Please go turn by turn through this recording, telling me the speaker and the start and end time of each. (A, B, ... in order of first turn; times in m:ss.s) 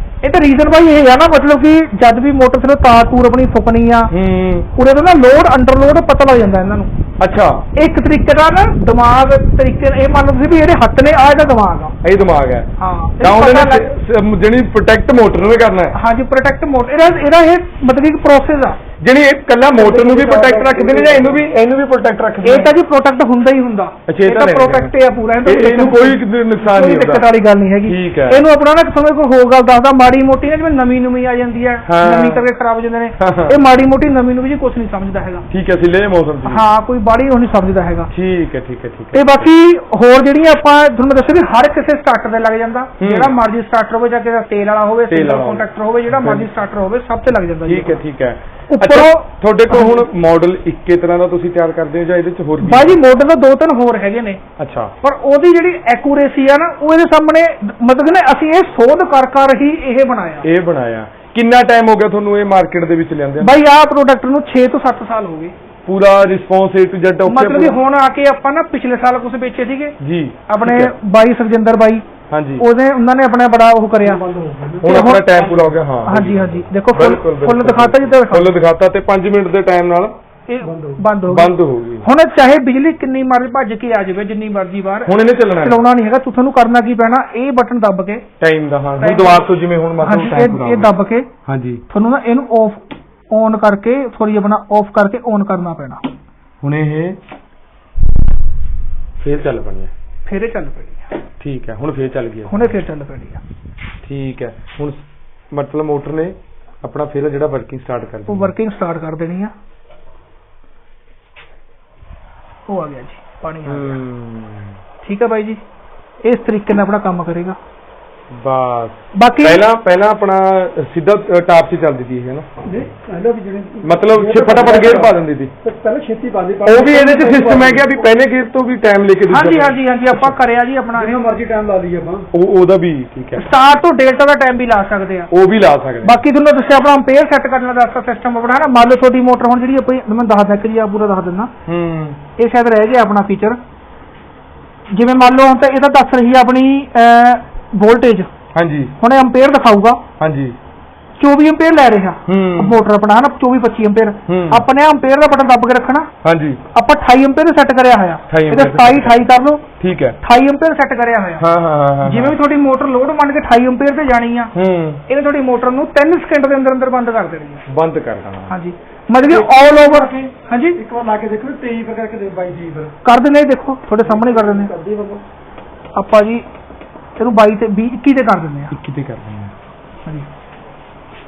0:00.2-0:04.1 A
0:04.1-0:04.7 B
0:04.8-0:06.9 A
0:07.2-0:07.6 B
0:07.8-0:12.0 A
0:12.0-0:12.7 B
0:12.8-0:13.8 A
0:13.2-0:16.0 B
0:15.9-0:18.8 A
0:19.0-0:22.7 B
0:19.8-0:21.4 C
0:22.4-0:35.5 A
0:24.1-0:24.9 B
0:25.4-0:27.3 B
0:27.8-0:28.4 B
0:31.9-0:32.4 B
0:33.2-0:33.6 B
0:35.5-0:36.6 B
0:36.4-0:38.1 A
0:38.1-0:39.5 B
0:39.1-0:48.0 A
0:43.0-0:43.3 B
0:45.1-0:46.5 B
0:47.6-0:53.0 B
0:48.7-0:50.0 A
0:52.6-0:54.4 A
0:54.6-0:54.9 B
0:55.0-1:00.5 A
1:00.4-1:03.5 B
1:03.4-1:05.5 A
1:05.9-1:07.8 B
1:07.3-1:10.0 A
1:10.0-1:10.9 B
1:10.5-1:12.0 A
1:12.3-1:12.6 B
1:12.6-1:14.2 A
1:14.0-1:15.7 C
1:14.8-1:20.1 B
1:14.8-1:15.3 A
1:16.1-1:18.5 A
1:20.5-1:28.3 A
1:20.6-1:21.0 C
1:21.3-1:22.1 B
1:25.1-1:25.8 B
1:28.4-1:30.9 B
1:29.0-1:29.4 A
1:30.0-1:31.3 A
1:31.5-1:31.8 B
1:31.9-1:36.0 A
1:36.6-1:37.2 B
1:39.2-1:39.9 B
1:40.3-1:41.2 A
1:41.4-1:42.7 B
1:42.5-1:43.4 A
1:44.0-1:48.5 B
1:48.3-1:49.5 A
1:52.7-1:54.0 A
1:53.7-1:54.8 B
1:55.0-1:55.6 A
1:56.2-1:57.6 A
1:58.3-2:02.5 B
1:59.1-1:59.6 A
2:02.6-2:08.0 C
2:03.8-2:05.5 B
2:06.6-2:10.3 B
2:09.3-2:11.2 A
2:11.0-2:12.3 C
2:12.3-2:13.5 B
2:13.4-2:15.3 A
2:15.3-2:16.2 B
2:16.0-2:21.5 A
2:21.7-2:22.2 B
2:22.4-2:23.6 A
2:24.9-2:28.3 A
2:28.5-2:28.9 B
2:29.0-2:30.0 A
2:30.2-2:30.6 B
2:31.2-2:36.1 A
2:32.3-2:32.8 B
2:34.3-2:34.6 B
2:36.2-2:36.6 B
2:36.7-2:39.7 A
2:38.3-2:39.2 B
2:39.8-2:40.2 B
2:40.2-2:41.4 A
2:41.4-2:42.4 B
2:42.0-2:44.5 A
2:44.6-2:45.0 B
2:45.1-2:47.6 A
2:47.7-2:48.5 B
2:48.5-2:50.8 A
2:49.2-2:52.9 C
2:53.0-2:54.7 A
2:54.0-2:55.2 C
2:56.0-2:56.4 A
2:57.2-2:58.8 A
2:58.7-2:59.5 B